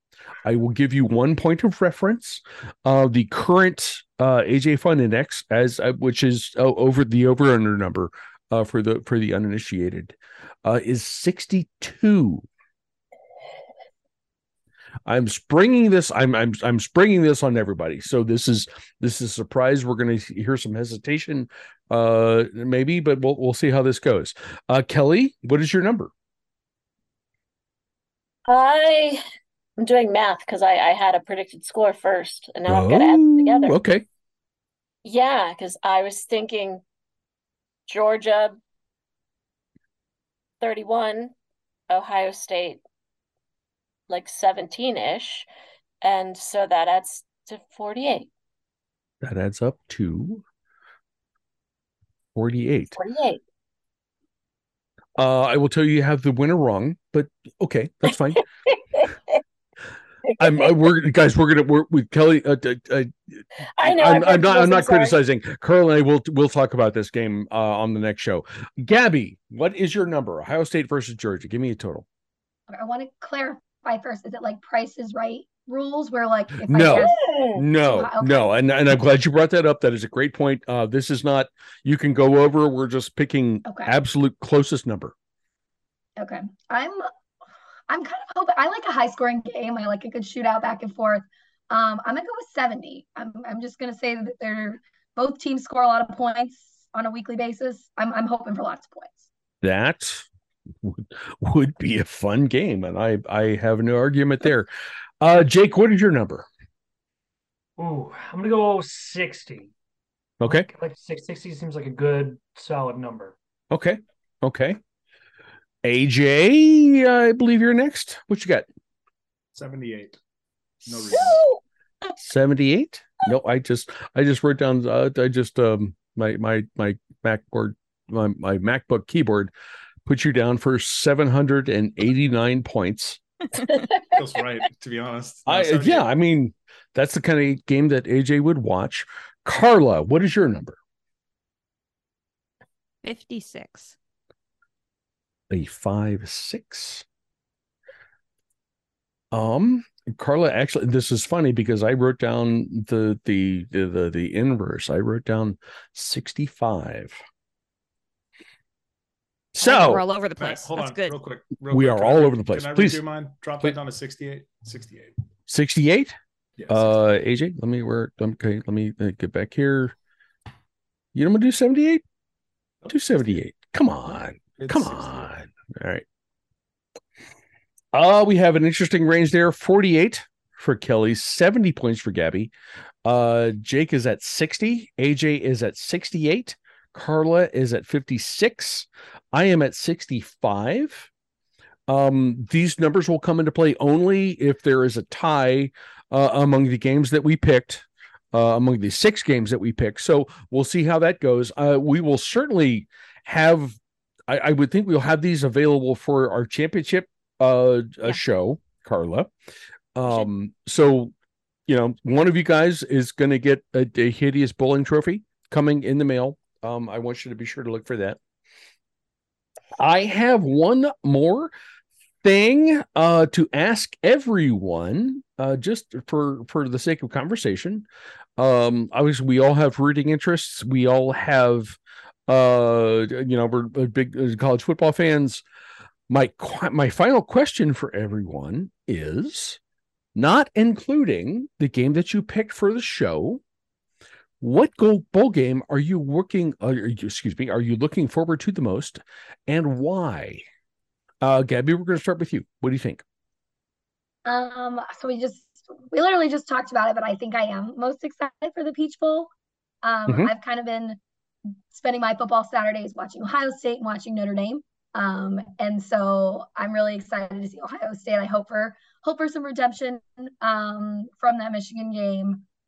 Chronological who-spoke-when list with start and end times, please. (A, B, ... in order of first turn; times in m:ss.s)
0:00.4-0:12.4 A
0:15.0-0:26.1 A
0:28.5-0:29.2 B
0:29.8-0:33.7 B
0:32.7-0:34.0 A
0:35.0-0:36.8 B
0:37.9-0:38.6 B
0:40.6-0:41.3 B
0:41.9-0:42.8 B
0:44.1-0:45.4 B
0:46.0-0:48.3 B
0:49.2-0:50.4 A
0:52.3-0:53.0 A
0:53.0-0:53.4 B
0:55.2-0:58.4 A
0:58.4-0:59.4 B
1:00.2-1:00.9 B
1:00.4-1:12.0 A
1:03.8-1:05.2 B
1:12.7-1:18.5 C
1:16.6-1:25.1 A
1:16.9-1:17.6 B
1:26.2-1:27.1 C
1:27.9-1:39.3 C
1:39.6-1:40.2 A
1:40.8-1:44.7 A
1:45.2-1:46.5 A
1:47.8-1:49.7 D
1:50.4-1:50.7 A
1:50.4-1:53.4 D
1:53.7-1:54.8 A
1:55.8-1:58.6 A
1:59.5-2:00.2 E
2:00.8-2:01.4 E
2:01.0-2:01.6 B
2:02.2-2:09.5 A
2:10.0-2:13.2 A
2:14.1-2:16.1 E
2:15.4-2:20.8 A
2:23.0-2:24.0 F
2:25.5-2:27.0 A
2:29.3-2:37.2 A
2:39.5-2:40.0 A
2:39.6-2:41.2 F
2:40.4-2:45.1 E
2:41.7-2:43.0 A
2:45.5-2:46.2 A
2:46.6-2:46.9 E
2:46.7-2:49.9 A
2:51.1-2:52.0 A
2:52.9-2:56.0 A
2:54.6-2:55.3 E
2:57.9-3:02.5 A
3:03.0-3:11.1 A
3:11.9-3:29.3 A
3:29.9-3:31.1 A
3:31.7-3:38.2 A
3:39.8-3:41.5 A
3:42.2-3:47.8 A
3:48.4-3:55.4 A
3:56.1-3:59.6 A
4:00.1-4:03.4 A
4:04.4-4:10.4 A
4:11.2-4:13.0 A
4:14.2-4:19.3 C
4:19.8-4:21.0 C
4:21.7-4:32.4 C